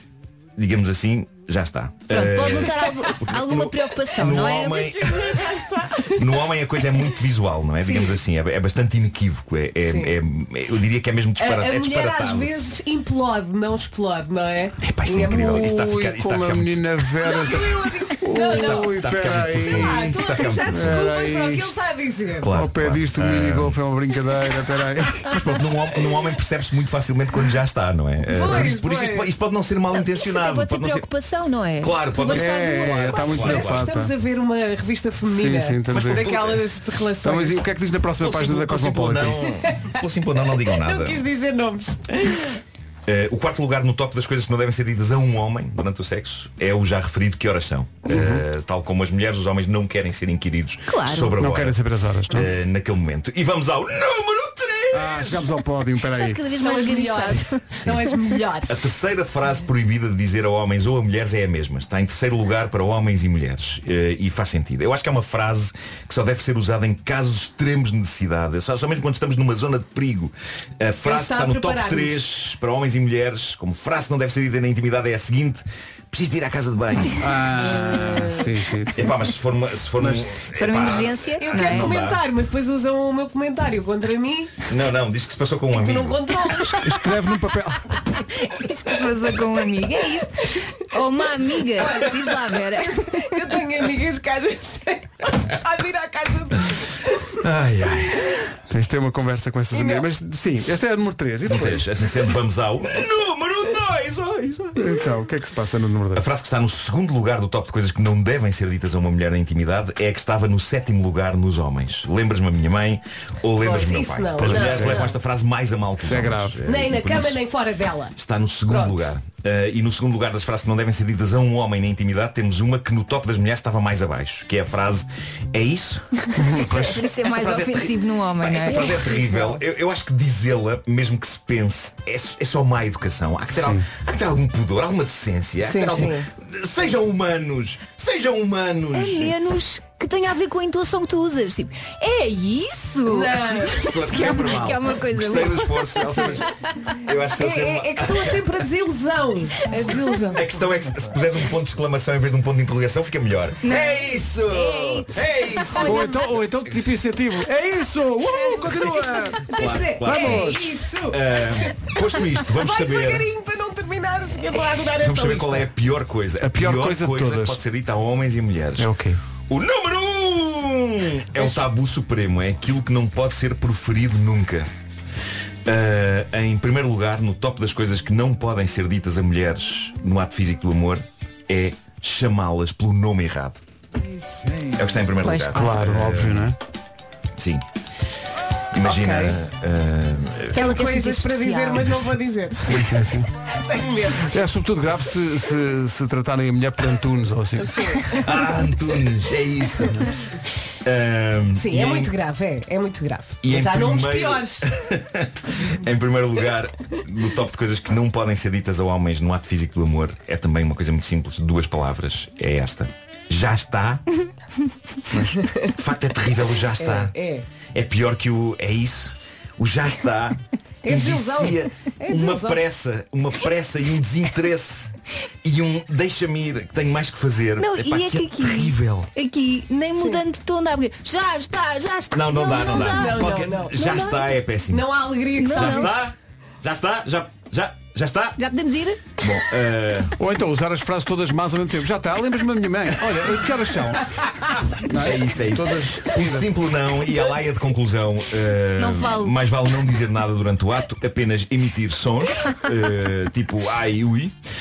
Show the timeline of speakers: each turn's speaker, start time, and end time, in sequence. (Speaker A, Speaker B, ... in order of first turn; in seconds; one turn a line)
Speaker A: 0.6-12.5
Speaker B: 2.1-4.9
Speaker C: 2.9-3.1
Speaker C: 4.7-6.2
Speaker C: 9.8-10.1
Speaker C: 11.4-15.6
Speaker A: 14.8-16.8
Speaker D: 15.4-21.8
Speaker C: 17.2-19.0
Speaker A: 18.4-21.1
Speaker C: 19.6-22.5
Speaker A: 22.4-23.8
Speaker D: 22.5-25.7
Speaker A: 25.4-31.1
Speaker C: 28.3-29.3
Speaker B: 30.0-33.6
Speaker A: 31.8-33.8
Speaker D: 32.3-34.1
Speaker C: 33.4-37.6
Speaker D: 35.2-36.3
Speaker A: 35.9-36.7
Speaker D: 37.2-39.4
Speaker A: 38.2-41.2
Speaker C: 39.5-40.0
Speaker C: 40.6-42.5
Speaker A: 43.1-51.8
Speaker D: 48.1-48.5
Speaker B: 50.9-51.4
Speaker D: 51.4-52.5
Speaker A: 52.3-55.5
Speaker D: 54.9-56.5
Speaker B: 56.1-57.7
Speaker C: 56.6-58.9
Speaker A: 58.7-77.3
Speaker C: 71.0-72.2
Speaker D: 77.2-79.2
Speaker A: 79.0-82.2
Speaker D: 80.0-80.3
Speaker B: 80.5-82.0
Speaker C: 81.4-84.6
Speaker A: 84.7-86.5
Speaker C: 85.7-87.0
Speaker D: 86.8-88.0
Speaker B: 88.4-93.4
Speaker C: 91.8-92.1
Speaker C: 92.8-97.2
Speaker A: 97.4-98.4
Speaker D: 98.7-101.9
Speaker C: 99.7-100.1
Speaker A: 101.5-104.9
Speaker D: 104.8-106.3
Speaker A: 106.2-117.4
Speaker C: 113.6-115.1
Speaker D: 114.5-115.0
Speaker D: 116.0-116.6
Speaker C: 116.7-118.2
Speaker A: 118.2-139.4
Speaker C: 118.7-119.1
Speaker D: 126.4-127.0
Speaker B: 126.8-129.0
Speaker C: 128.7-129.6
Speaker D: 133.5-133.9
Speaker C: 135.6-136.3
Speaker B: 138.9-146.9
Speaker C: 143.1-144.6
Speaker A: 143.7-146.5
Speaker A: 147.0-148.6
Speaker C: 147.3-150.4
Speaker A: 150.3-156.9
Speaker B: 153.6-155.2
Speaker D: 155.8-160.8
Speaker C: 158.3-165.7
Speaker A: 159.4-163.3
Speaker A: 164.9-168.9
Speaker D: 166.4-167.6
Speaker D: 168.8-169.2
Speaker A: 169.5-174.7
Speaker A: 175.7-183.6
Speaker A: 184.8-186.5
Speaker B: 185.2-185.7
Speaker D: 185.5-186.6
Speaker A: 187.4-187.6
Speaker A: 188.7-190.6
Speaker C: 188.8-189.4
Speaker B: 190.5-192.0
Speaker C: 190.6-192.8
Speaker D: 192.6-193.3
Speaker C: 193.5-194.3
Speaker D: 194.1-197.8
Speaker C: 197.7-198.1
Speaker A: 198.2-200.1
Speaker A: 200.8-202.1
Speaker C: 201.6-204.6
Speaker A: 203.4-214.0
Speaker C: 215.4-215.7
Speaker A: 215.8-217.1
Speaker C: 216.8-217.5
Speaker A: 217.8-229.1
Speaker C: 220.8-222.6
Speaker B: 227.6-234.2
Speaker A: 232.1-238.4
Speaker C: 232.7-234.1
Speaker C: 234.7-235.9
Speaker B: 235.4-236.1
Speaker B: 238.4-239.2
Speaker A: 239.2-240.2
Speaker D: 240.2-246.5
Speaker A: 244.9-254.3
Speaker B: 248.8-249.4